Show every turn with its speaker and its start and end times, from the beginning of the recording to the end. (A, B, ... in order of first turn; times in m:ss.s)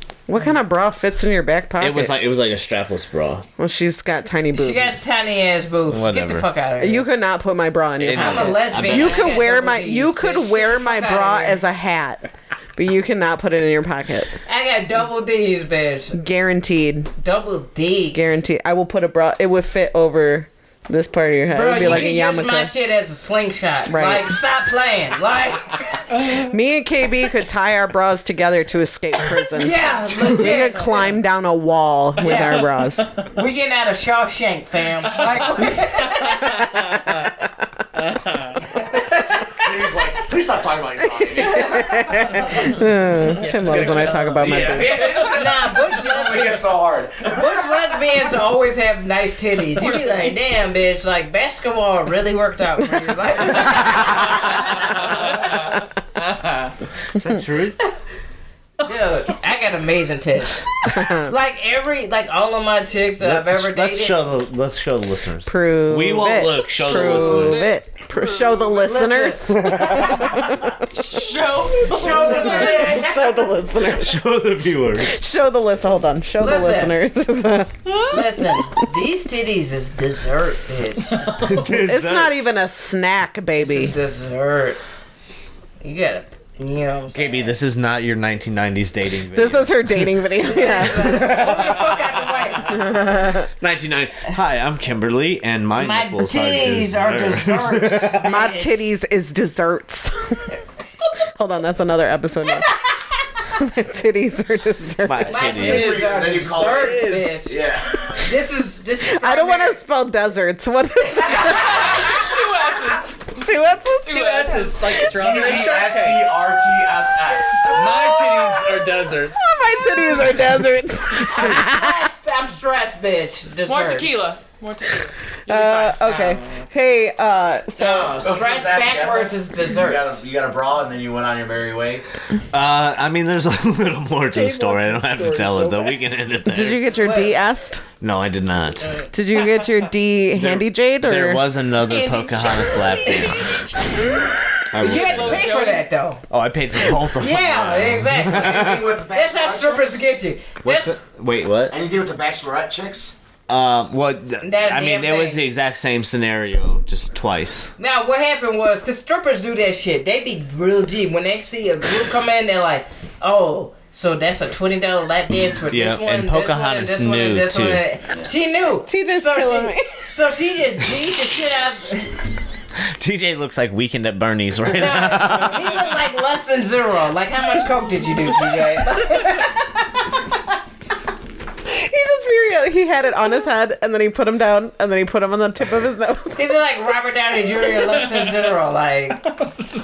0:00.3-0:02.2 A
0:01.8-0:03.4 B
0:03.6-0:05.0 A
0:04.5-0:07.1 C
0:05.9-0:06.5 B
0:06.8-0:14.4 A
0:08.0-0:09.3 B
0:08.1-0:11.6 C
0:14.4-0:16.2 C
0:16.2-0:17.1 A
0:17.2-0:18.3 C
0:18.1-0:22.7 A
0:21.5-0:26.1 C
0:23.9-0:24.3 A
0:26.4-0:33.1 A
0:29.5-0:31.1 C
0:32.2-0:32.6 C
0:33.3-0:37.2 C
0:38.0-0:38.5 D
0:38.9-0:39.7 C
0:39.5-0:42.7 E
0:41.2-0:45.1 A
0:43.2-0:45.1 D
0:44.4-0:47.8 E
0:45.0-0:55.5 C
0:49.8-0:50.1 F
0:54.4-0:56.7 D
0:57.1-0:57.8 B
0:58.8-1:04.2 C
1:00.9-1:01.3 A
1:03.2-1:07.7 B
1:05.5-1:14.2 A
1:06.9-1:08.7 F
1:08.6-1:10.4 C
1:09.6-1:10.0 B
1:11.0-1:13.0 F
1:11.8-1:13.6 C
1:13.9-1:15.2 B
1:15.0-1:17.9 A
1:16.4-1:16.9 C
1:17.9-1:18.4 F
1:18.1-1:21.4 C
1:21.4-1:22.4 B
1:21.6-1:23.9 A
1:23.6-1:24.8 C
1:25.8-1:27.5 C
1:27.1-1:30.1 B
1:29.3-1:31.3 A
1:30.4-1:32.9 C
1:31.0-1:31.8 B
1:32.6-1:33.5 A
1:33.6-1:38.2 B
1:35.8-1:38.8 C
1:38.2-1:40.5 A
1:41.4-1:42.7 A
1:43.5-1:45.6 A
1:45.0-1:46.1 B
1:45.3-1:47.6 C
1:45.6-1:48.2 E
1:45.6-1:47.4 D
1:48.2-1:49.8 C
1:49.0-1:52.0 A
1:51.5-1:53.3 F
1:53.4-1:55.0 A
1:54.1-1:55.0 F
1:54.1-1:56.5 D
1:55.0-1:58.1 E
1:57.6-1:59.6 D
1:59.3-2:02.0 A
2:01.2-2:04.3 C
2:03.6-2:06.1 F
2:05.5-2:08.3 A
2:06.0-2:06.7 C
2:07.8-2:10.2 C
2:08.2-2:12.0 E
2:12.5-2:17.0 B
2:14.3-2:16.0 D
2:16.4-2:17.8 A
2:16.9-2:17.4 C
2:18.0-2:19.0 B
2:19.1-2:21.4 A
2:20.3-2:23.8 B
2:21.8-2:26.2 C
2:24.7-2:25.5 B
2:24.8-2:25.9 F
2:26.3-2:28.9 B
2:26.9-2:30.9 C
2:28.2-2:30.0 E
2:30.6-2:31.8 B
2:31.7-2:33.1 E
2:33.5-2:37.7 B
2:34.4-2:35.4 C
2:37.8-2:52.2 C
2:45.7-2:47.8 B
2:48.8-2:50.0 A
2:53.0-2:55.8 B
2:54.6-2:59.7 C
3:01.6-3:06.4 A
3:06.3-3:09.3 C